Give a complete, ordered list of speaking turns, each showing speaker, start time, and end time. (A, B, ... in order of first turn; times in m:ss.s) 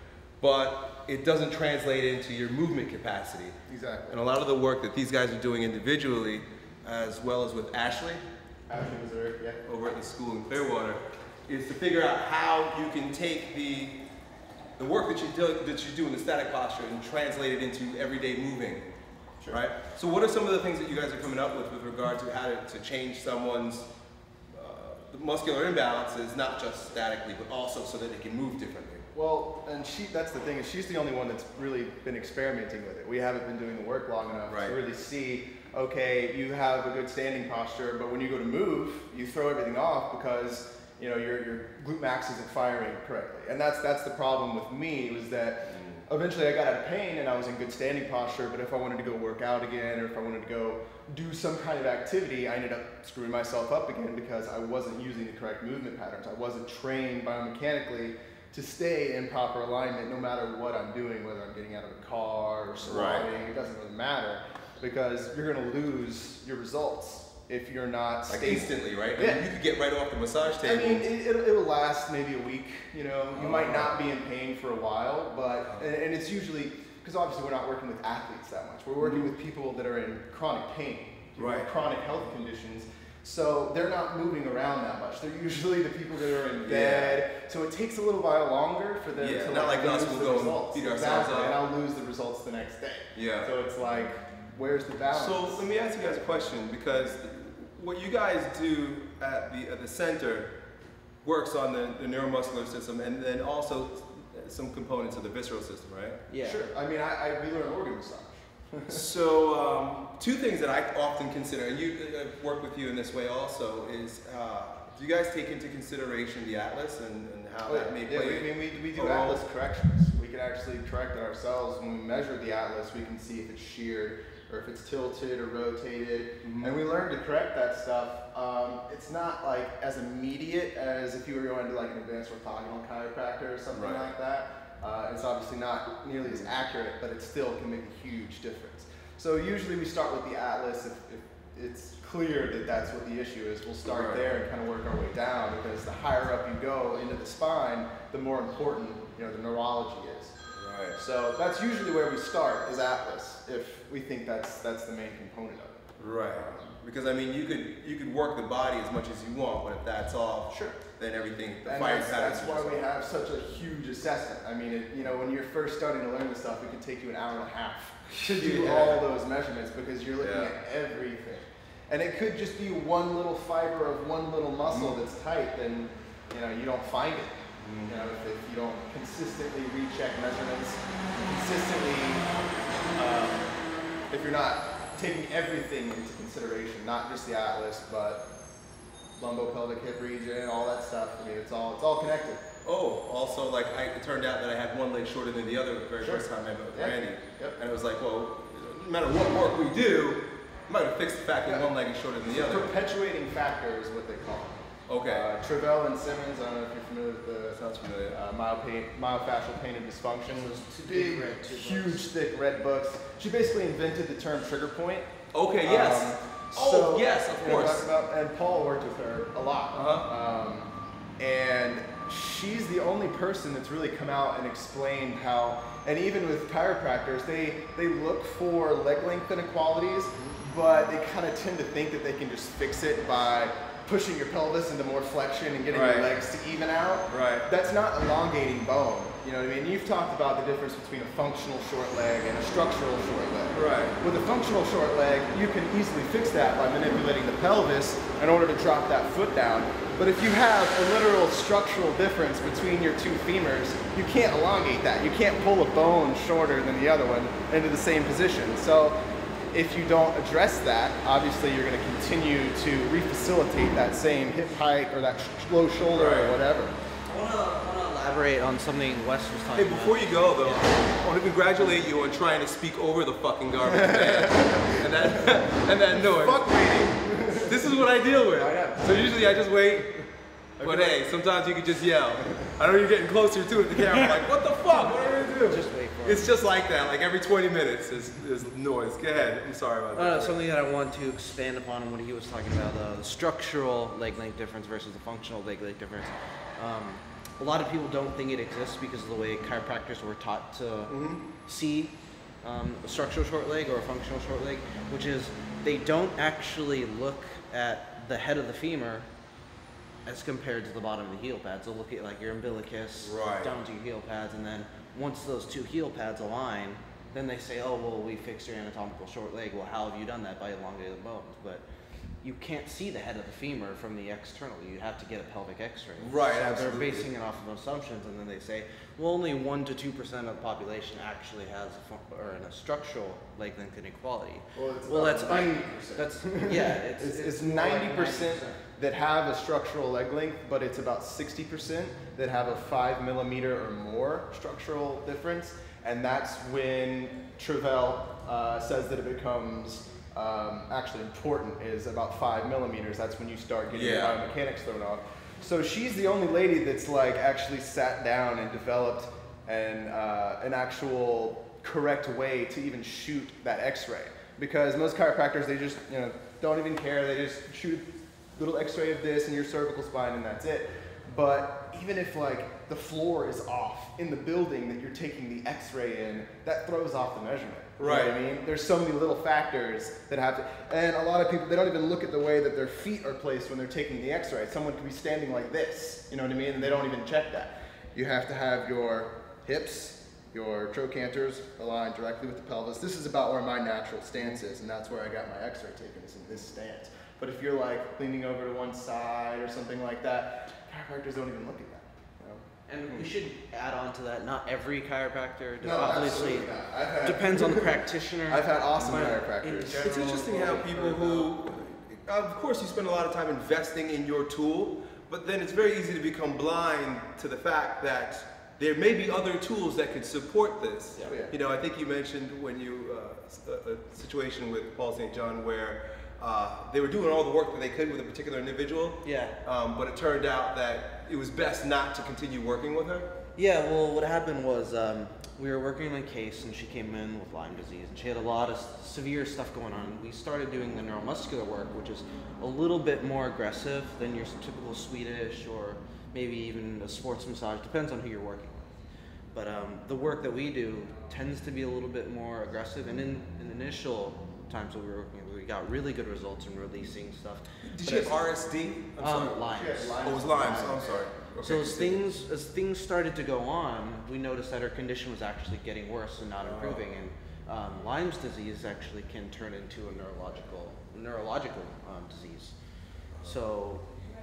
0:00.4-0:03.5 A
0:03.7-0:04.2 B
0:04.1-0:08.2 A
0:08.7-0:09.6 B
0:09.6-0:14.0 A
0:14.8-0:18.9 A
0:19.5-0:23.9 A
0:24.5-0:29.0 A
0:29.1-1:09.5 B
0:34.4-0:34.8 A
0:45.7-0:46.0 A
1:02.8-1:03.3 A
1:08.3-1:11.1 A
1:10.6-1:35.6 B
1:13.3-1:14.0 A
1:19.0-1:19.3 A
1:21.4-1:21.7 A
1:26.6-1:27.2 A
1:29.2-1:31.6 A
1:33.1-1:33.5 A
1:35.1-1:40.5 A
1:41.2-1:46.2 A
1:46.3-1:46.6 C
1:46.4-1:49.0 B
1:48.9-1:59.4 A
1:57.6-2:30.3 B
2:06.4-2:06.8 A
2:13.7-2:14.1 A
2:23.9-2:24.2 A
2:30.6-2:31.0 A
2:30.9-2:36.8 B
2:36.0-2:42.8 A
2:40.5-2:40.8 B
2:41.6-3:02.3 B
2:48.1-2:49.1 A
2:50.2-2:50.5 A
2:54.7-2:54.9 A
2:57.6-2:58.1 A
3:02.9-3:03.6 B
3:04.1-3:08.3 B
3:09.2-3:12.4 B
3:12.6-3:22.7 A
3:16.0-3:17.6 B
3:21.4-3:21.7 B
3:22.3-3:35.1 B
3:24.9-3:25.3 A
3:27.5-3:28.2 A
3:30.3-3:32.0 C
3:35.3-3:37.9 A
3:35.6-4:19.0 B
3:39.7-3:40.1 A
3:55.7-3:56.1 A
3:57.1-3:57.4 A
4:03.5-4:04.0 A
4:19.5-4:26.7 B
4:25.9-4:26.4 A
4:27.0-4:30.8 C
4:29.5-4:40.1 A
4:33.7-4:34.6 B
4:36.0-4:37.7 B
4:38.4-4:39.3 B
4:40.6-4:41.0 B
4:40.6-4:50.4 A
4:44.7-4:46.3 C
4:49.9-5:09.1 C
5:00.9-5:01.2 A
5:10.0-5:21.6 C
5:13.0-5:13.5 A
5:22.2-5:38.6 C
5:26.0-5:27.1 A
5:34.5-6:42.4 B
5:53.7-5:54.2 A
6:17.8-6:18.2 A
6:42.7-6:46.5 C
6:45.6-6:50.0 B
6:47.0-6:51.3 C
6:49.7-7:13.1 A
7:01.0-7:01.3 B
7:09.0-7:09.4 C
7:13.4-7:28.7 C
7:29.3-7:38.3 C
7:37.7-7:42.0 A
7:39.0-7:40.9 C
7:39.5-7:41.0 B
7:41.4-7:52.5 C
7:46.4-7:46.8 A
7:53.2-7:53.9 C